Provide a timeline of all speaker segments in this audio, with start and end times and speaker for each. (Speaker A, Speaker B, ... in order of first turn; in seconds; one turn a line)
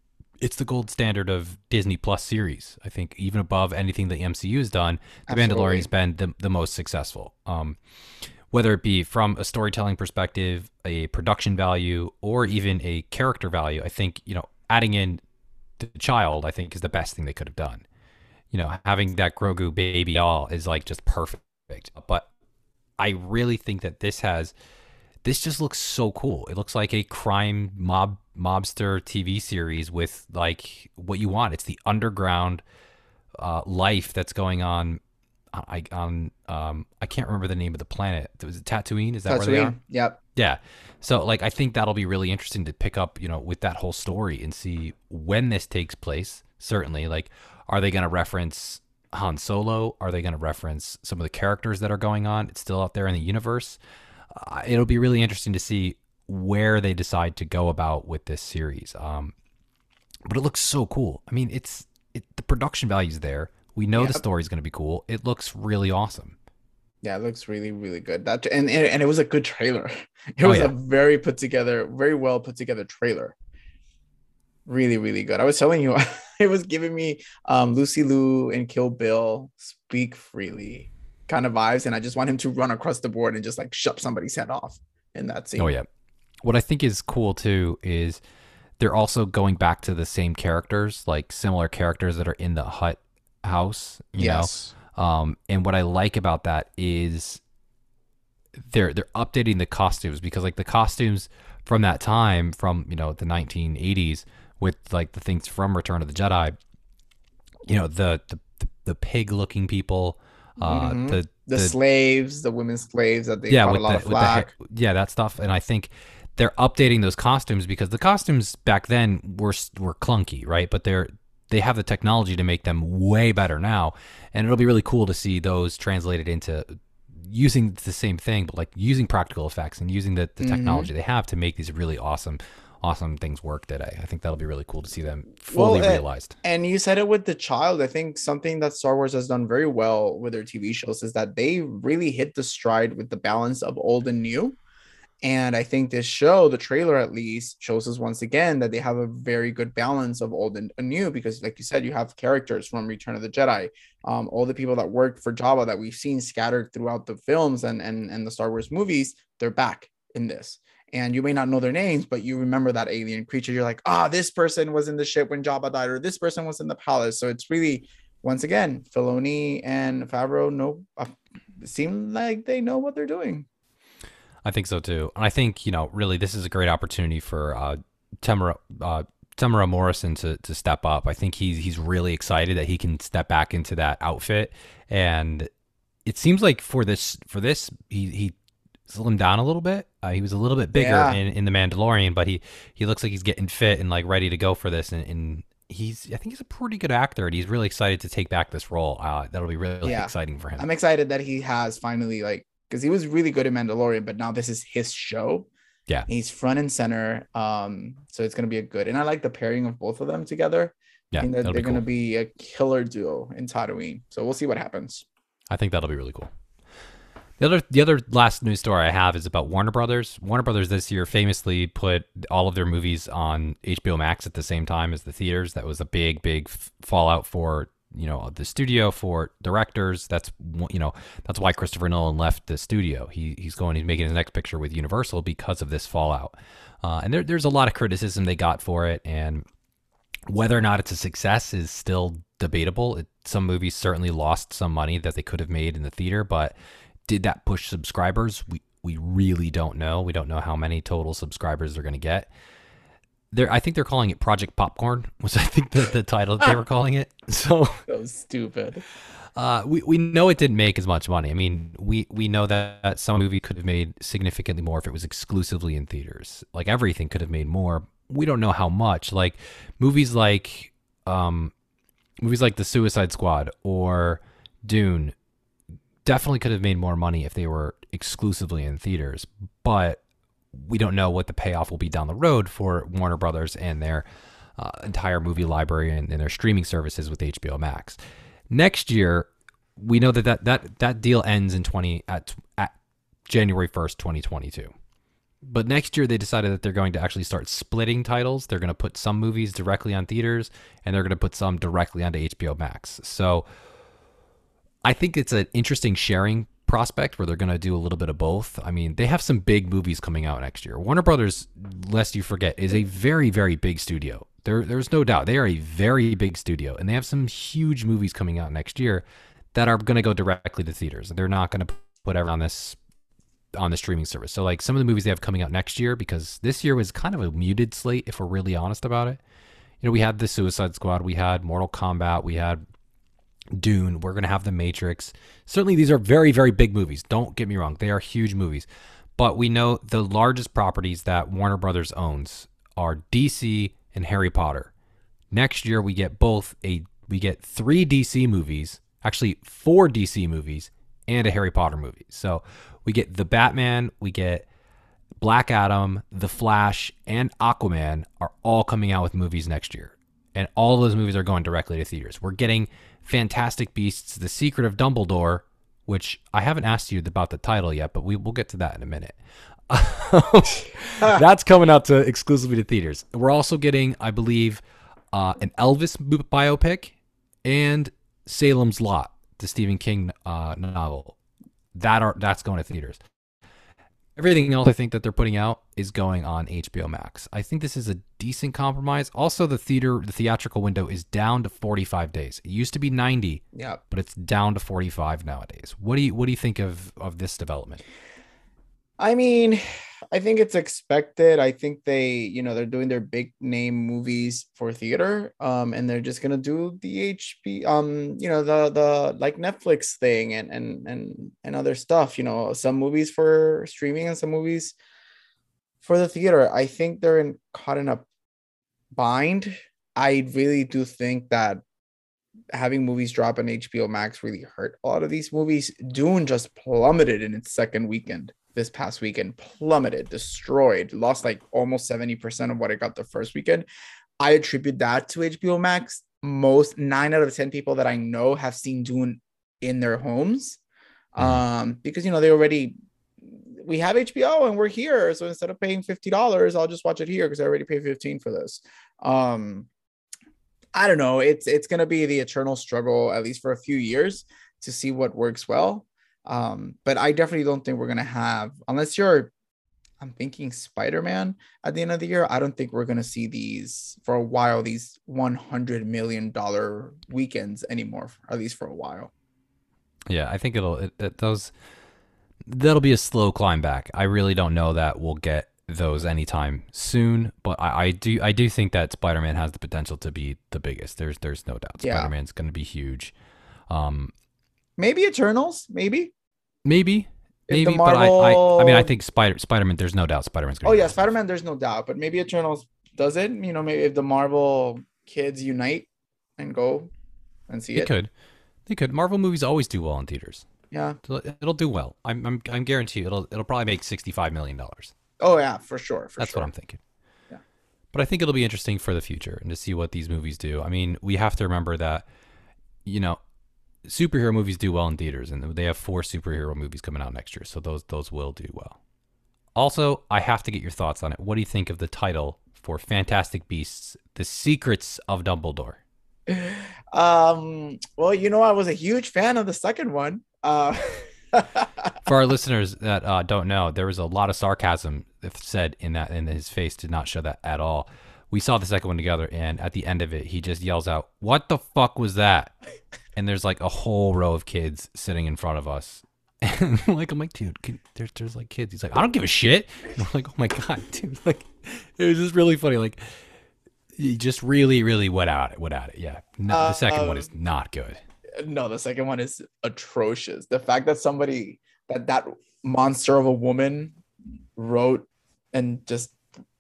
Speaker A: 0.4-7.8
Speaker B: 5.3-5.9
Speaker A: 8.5-15.2
Speaker A: 15.8-17.9
Speaker A: 18.5-22.3
Speaker A: 23.0-24.5
Speaker A: 25.2-32.6
Speaker A: 33.4-35.0
Speaker A: 35.5-39.8
Speaker B: 39.3-40.2
Speaker A: 40.4-53.8
Speaker A: 54.3-59.3
Speaker A: 60.3-66.4
Speaker B: 64.0-64.2
Speaker B: 67.0-73.4
Speaker A: 70.4-70.7
Speaker B: 74.7-85.7
Speaker A: 85.6-85.9
Speaker A: 86.4-88.2
Speaker A: 88.8-97.4
Speaker B: 94.2-94.7
Speaker A: 98.6-106.6
Speaker A: 107.7-111.8
Speaker B: 110.6-114.5
Speaker A: 113.5-136.4
Speaker B: 130.4-130.9
Speaker B: 135.5-144.6
Speaker B: 145.2-173.5
Speaker A: 174.4-185.5
Speaker A: 186.1-188.3
Speaker A: 188.9-200.7
Speaker B: 190.8-191.2
Speaker B: 199.8-205.5
Speaker B: 206.1-215.1
Speaker A: 211.1-211.8
Speaker A: 215.5-216.3
Speaker A: 217.4-239.5
Speaker A: 240.3-246.6
Speaker A: 247.1-252.3
Speaker A: 253.3-257.9
Speaker B: 257.9-258.8
Speaker A: 259.4-271.5
Speaker A: 272.2-275.1
Speaker A: 276.1-280.0
Speaker A: 280.5-284.1
Speaker A: 284.6-288.0
Speaker A: 288.5-292.8
Speaker A: 293.3-294.7
Speaker A: 295.4-303.5
Speaker A: 304.9-322.8
Speaker A: 323.6-329.2
Speaker A: 329.8-332.6
Speaker A: 333.6-338.7
Speaker A: 339.2-344.7
Speaker A: 345.3-354.5
Speaker A: 355.2-369.2
Speaker A: 369.7-374.6
Speaker A: 375.1-381.2
Speaker A: 381.7-383.0
Speaker A: 384.2-397.8
Speaker B: 393.5-393.8
Speaker B: 399.0-414.8
Speaker B: 415.8-418.1
Speaker B: 418.9-421.6
Speaker B: 422.5-433.7
Speaker B: 434.2-440.6
Speaker B: 441.1-449.7
Speaker B: 450.7-459.3
Speaker B: 460.0-469.1
Speaker A: 470.1-471.5
Speaker A: 472.5-483.1
Speaker B: 481.8-482.1
Speaker A: 483.7-484.1
Speaker B: 484.8-486.1
Speaker A: 486.6-491.0
Speaker B: 487.5-488.9
Speaker B: 490.6-495.9
Speaker B: 496.4-496.9
Speaker B: 497.5-497.9
Speaker A: 497.7-498.1
Speaker A: 498.7-500.5
Speaker B: 500.7-501.0
Speaker A: 501.0-504.9
Speaker B: 505.2-506.5
Speaker A: 506.2-506.8
Speaker A: 507.9-512.0
Speaker A: 512.9-513.2
Speaker A: 513.9-518.8
Speaker A: 519.6-525.8
Speaker B: 526.3-532.0
Speaker A: 532.0-542.5
Speaker A: 543.2-553.2
Speaker A: 554.0-558.0
Speaker B: 556.5-557.3
Speaker B: 558.4-564.0
Speaker B: 564.6-566.2